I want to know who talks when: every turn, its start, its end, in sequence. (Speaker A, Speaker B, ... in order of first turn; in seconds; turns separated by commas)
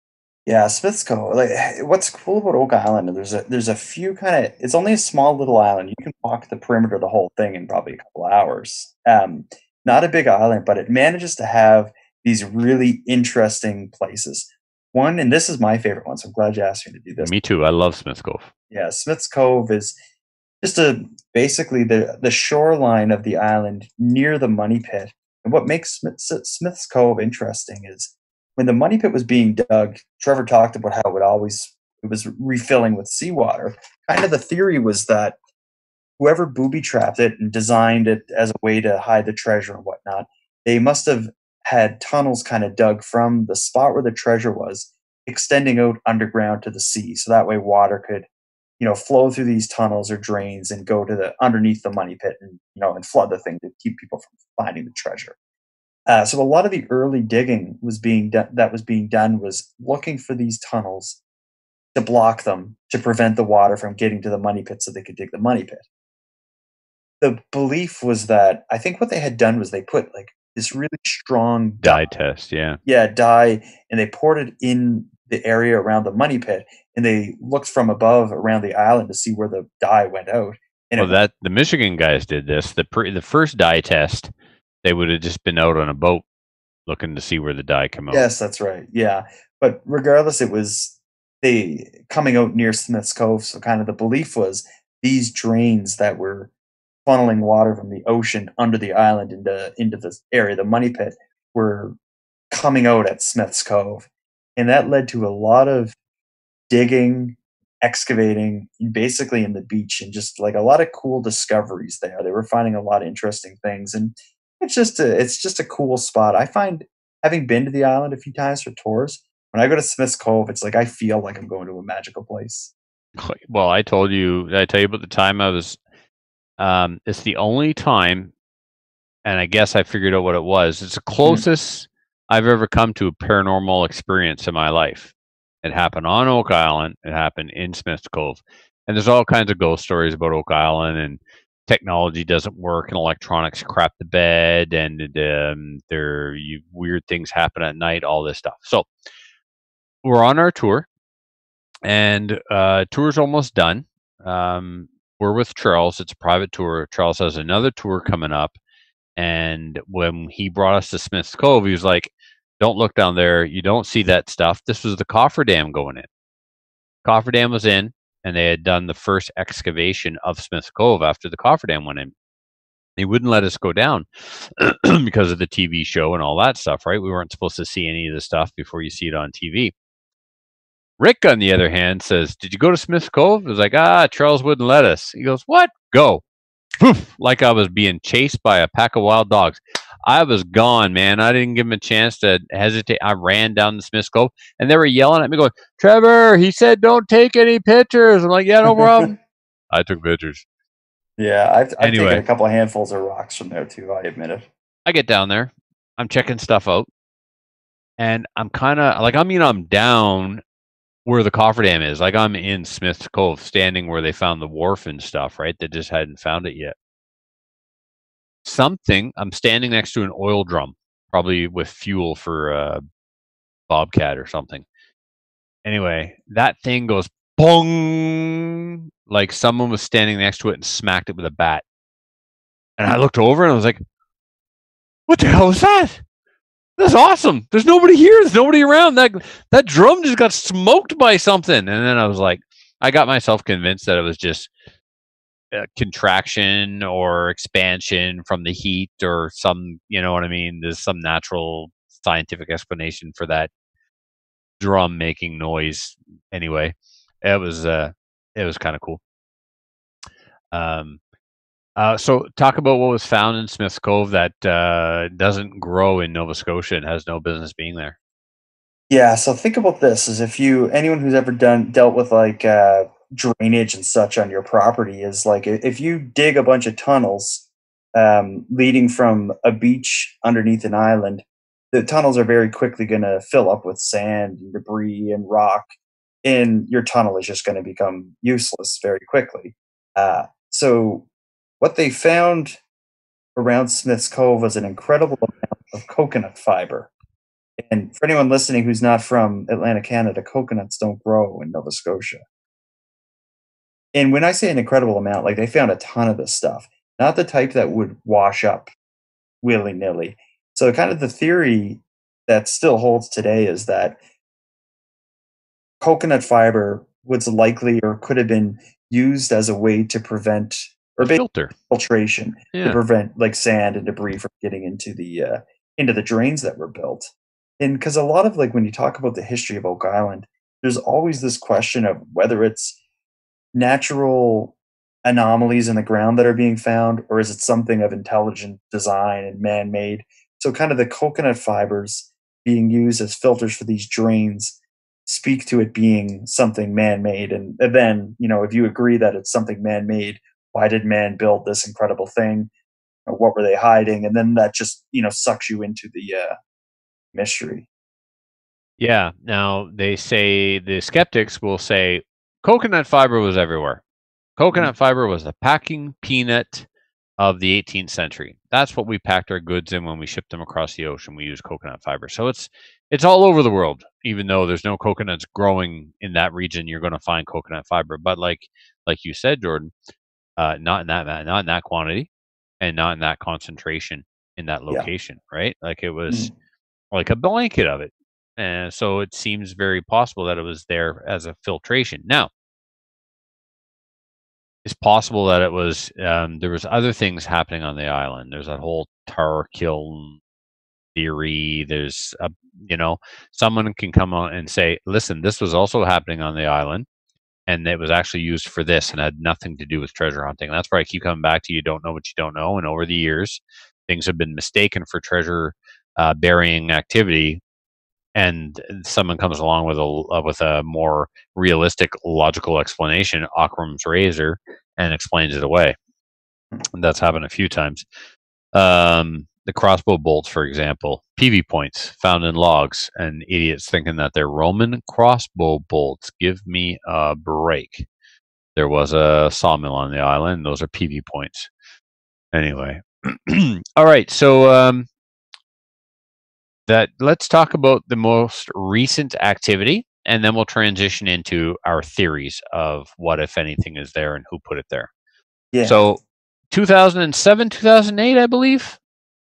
Speaker A: 0.5-17.3, Speaker B: 17.2-18.5, Speaker A: 18.7-19.9, Speaker A: 20.6-35.4, Speaker A: 36.2-48.3, Speaker A: 48.8-55.4, Speaker A: 56.1-61.2, Speaker A: 61.9-65.8, Speaker A: 67.2-72.1, Speaker B: 71.8-72.8, Speaker A: 72.8-81.2, Speaker B: 81.0-84.3, Speaker B: 84.8-86.2, Speaker B: 86.9-88.3, Speaker A: 88.1-96.5, Speaker A: 97.0-102.0, Speaker A: 102.5-105.9, Speaker A: 106.7-122.7, Speaker B: 123.2-125.8, Speaker B: 126.6-128.3, Speaker B: 129.2-148.9, Speaker B: 150.0-150.9, Speaker B: 151.8-158.6, Speaker B: 159.2-166.1, Speaker B: 167.0-172.1, Speaker B: 173.0-179.7, Speaker B: 181.0-186.2, Speaker B: 186.8-199.2, Speaker A: 198.7-199.1, Speaker B: 199.7-200.4, Speaker A: 201.2-204.5, Speaker B: 201.8-202.2, Speaker B: 204.9-206.9, Speaker B: 208.0-210.4, Speaker B: 211.1-216.8, Speaker B: 218.4-222.8, Speaker B: 223.7-224.7, Speaker B: 225.7-231.6, Speaker B: 232.8-233.8, Speaker B: 235.1-236.0, Speaker B: 236.8-244.5, Speaker B: 245.5-253.5, Speaker B: 254.6-259.0, Speaker B: 260.5-261.0, Speaker B: 261.8-267.9, Speaker A: 268.9-285.7, Speaker A: 286.2-291.1, Speaker A: 291.6-292.6, Speaker A: 293.4-296.9, Speaker A: 297.6-302.2, Speaker A: 303.9-308.7, Speaker A: 309.4-314.0, Speaker A: 315.8-332.8, Speaker B: 321.0-321.5, Speaker B: 322.5-322.8, Speaker A: 333.5-352.5, Speaker A: 353.1-356.4, Speaker A: 357.1-357.7, Speaker B: 358.8-363.8, Speaker B: 364.4-366.7, Speaker B: 367.2-379.7, Speaker B: 380.4-382.1, Speaker B: 382.6-386.3, Speaker A: 386.1-386.3, Speaker B: 386.9-392.3, Speaker B: 394.6-400.2, Speaker B: 400.9-406.9, Speaker B: 407.5-417.4, Speaker B: 418.1-425.8, Speaker B: 426.7-427.9, Speaker B: 428.5-437.9, Speaker B: 438.6-441.5, Speaker B: 442.3-444.9, Speaker B: 446.7-454.9, Speaker A: 455.5-455.8, Speaker B: 455.6-456.0, Speaker B: 456.5-458.8